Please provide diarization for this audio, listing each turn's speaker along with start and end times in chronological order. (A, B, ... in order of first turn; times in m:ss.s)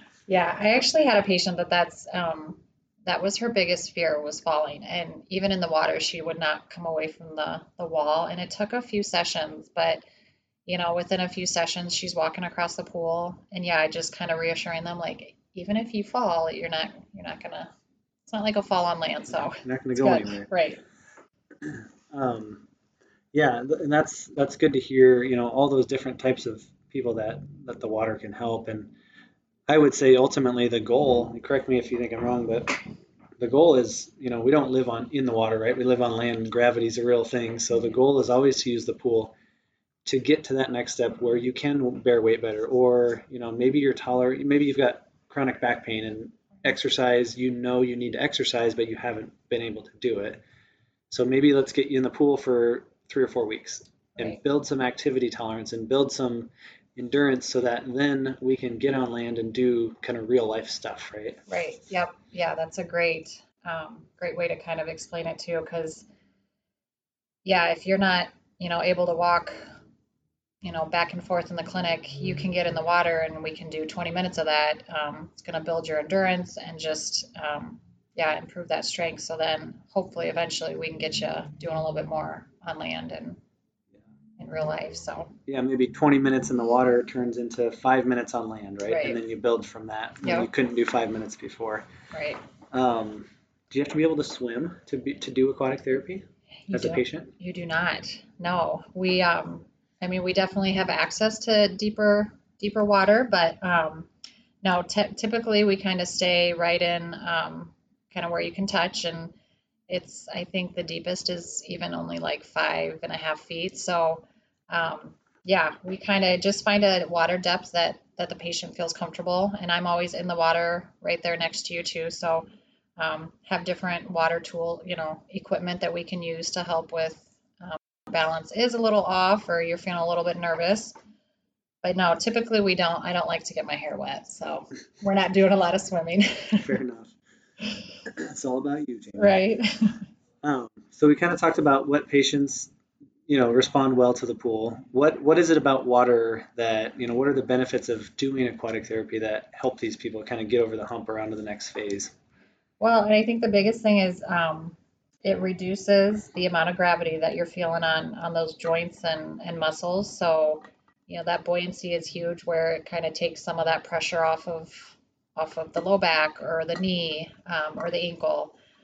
0:00.3-0:10.0 A
0:10.6-0:17.7 A
0:18.2-0:20.8 A
0:19.3-0:20.5 B
0:21.6-0:22.7 B
0:23.3-0:28.9 B
0:29.7-0:32.8 B
0:33.4-0:39.4 B
0:40.0-0:50.4 B
0:51.1-1:01.4 B
1:01.5-1:06.1 A
1:07.4-1:09.6 A
1:10.6-1:23.4 A
1:24.4-1:25.3 A
1:25.5-1:31.9 B
1:28.9-1:29.2 A
1:30.2-1:30.5 A
1:32.1-1:32.4 A
1:32.7-1:37.3 B
1:36.7-1:44.1 A
1:44.6-1:49.3 A
1:49.9-2:02.5 A
2:03.0-2:11.0 A
2:11.8-2:16.8 A
2:16.6-2:17.1 B
2:18.1-2:19.4 B
2:19.2-2:20.0 A
2:20.4-2:22.7 B
2:23.3-2:32.1 B
2:32.8-2:48.6 A